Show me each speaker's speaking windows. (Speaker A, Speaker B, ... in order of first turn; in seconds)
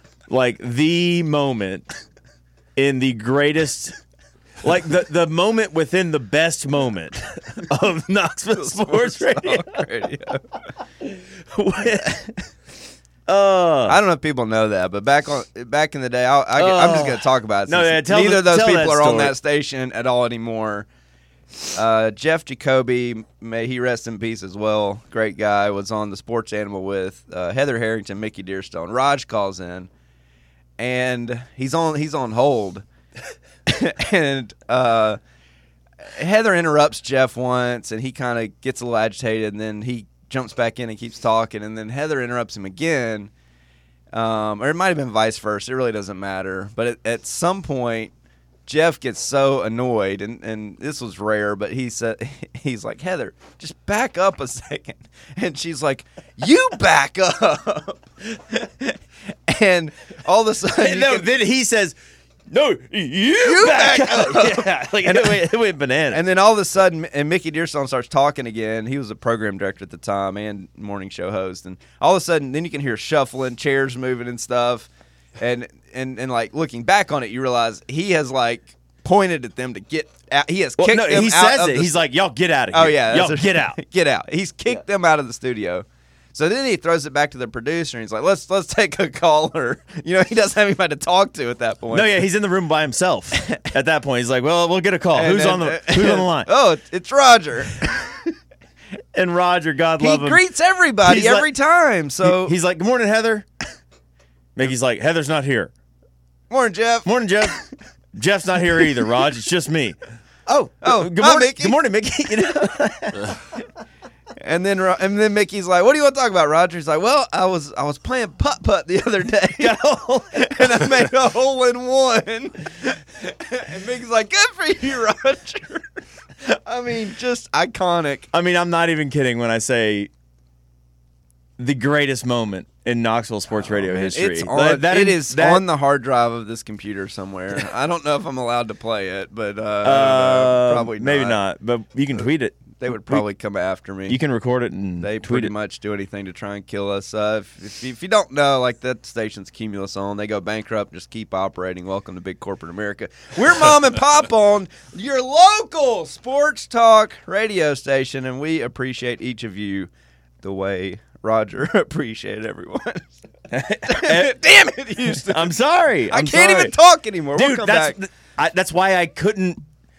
Speaker A: 0.3-1.9, 2.8-4.0, 4.6-9.8, 11.0-12.3, 13.3-14.0, 16.6-19.4, 60.8-62.0, 62.5-66.2, 80.8-83.8, 91.9-96.5, 99.1-100.4, 101.0-101.5, 102.2-103.5, 104.6-105.7, 107.0-107.6, 108.1-113.6, 119.6-121.0, 128.3-130.1, 131.6-135.7, 139.8-143.3, 144.1-145.5, 163.5-164.4, 165.0-166.8, 167.3-169.6
Speaker B: 8.5-10.4, 13.9-20.9, 21.7-29.9, 30.8-32.9, 33.7-35.2, 36.1-43.3, 44.1-48.1, 48.7-59.0, 59.5-61.3, 63.4-65.5, 66.1-82.0, 82.7-92.2, 95.2-98.1, 100.0-102.5, 106.5-107.6, 110.8-111.8, 114.4-119.8, 120.3-125.9, 126.4-128.3, 133.6-141.4, 142.8-144.2, 145.0-159.9, 160.4-163.2, 163.9-165.6, 166.1-168.0